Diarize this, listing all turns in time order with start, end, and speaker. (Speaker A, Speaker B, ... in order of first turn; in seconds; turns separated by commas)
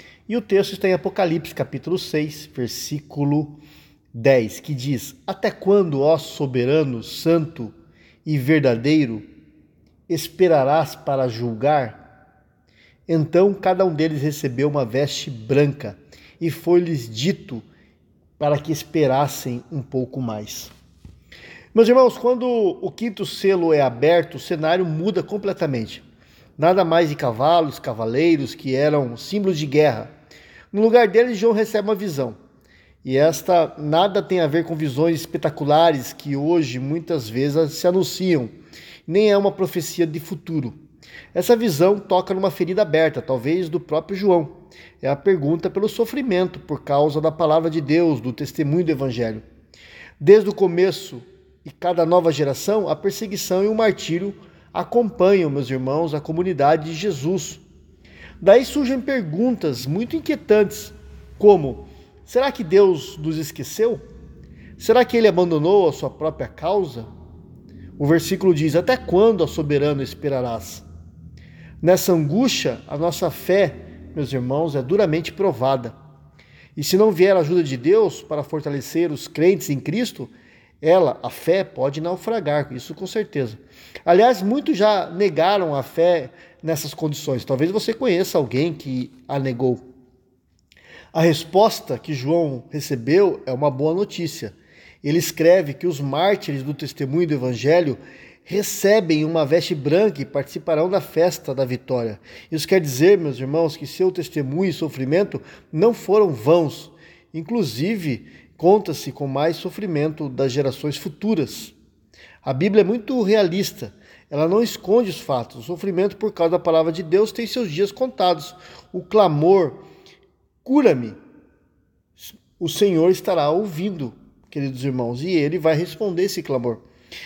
Speaker A: 0.3-3.6, Speaker A: 4.1-7.7, Speaker A: 8.2-9.3, Speaker A: 10.1-12.0, Speaker A: 13.1-17.6, Speaker A: 18.4-20.7, Speaker A: 21.7-26.0, Speaker A: 26.6-30.1, Speaker A: 30.7-32.4, Speaker A: 33.0-38.5, Speaker A: 39.1-40.8, Speaker A: 41.3-49.4, Speaker A: 50.2-57.6, Speaker A: 58.4-64.0, Speaker A: 64.8-67.1, Speaker A: 68.0-70.9, Speaker A: 71.8-76.0, Speaker A: 76.8-89.8, Speaker A: 91.1-111.8, Speaker A: 112.4-119.8, Speaker A: 120.6-121.2, Speaker A: 122.2-126.8